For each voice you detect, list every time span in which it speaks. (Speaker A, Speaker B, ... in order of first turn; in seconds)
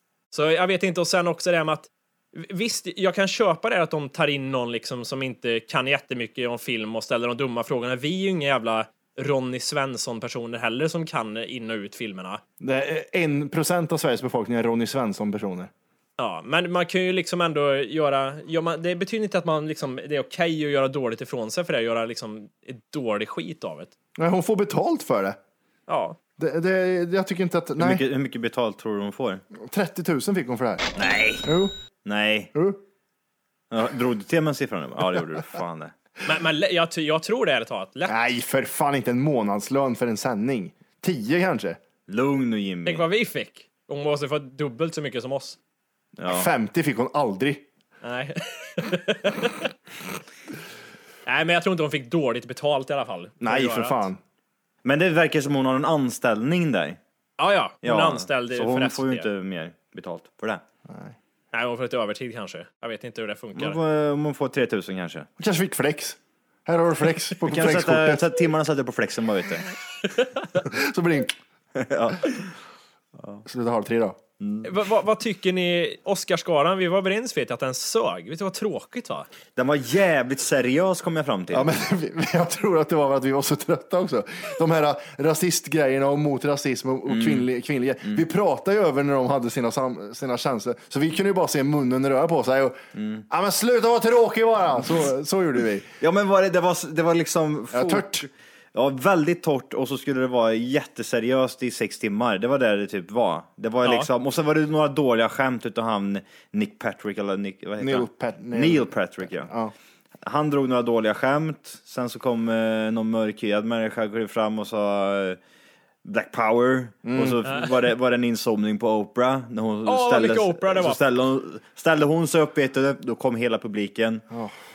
Speaker A: 0.3-12.4, 16.2-23.9, 25.9-26.2, 36.2-38.1, 42.9-45.6, 48.0-49.7, 51.2-54.1, 57.4-59.2, 61.5-63.8, 74.6-79.3, 119.8-121.0
Speaker B: 12.6-15.7, 24.2-25.4, 26.4-28.0, 29.6-31.7, 32.5-32.8, 38.0-41.8, 46.3-47.6, 53.4-54.2, 60.9-61.1, 65.4-68.2, 70.5-71.3, 73.4-74.2, 81.5-92.8, 93.3-95.9, 97.7-98.3, 107.8-109.7, 117.0-117.4
Speaker C: 27.8-29.4, 30.9-31.5, 32.0-32.5, 33.7-35.9, 42.1-43.0, 46.2-46.5, 54.8-57.0, 57.8-60.6, 63.5-65.3, 67.4-69.7, 71.8-72.5, 74.4-74.7, 79.5-81.8, 87.1-87.5, 92.9-93.2, 96.0-109.5, 110.2-115.4, 116.0-124.2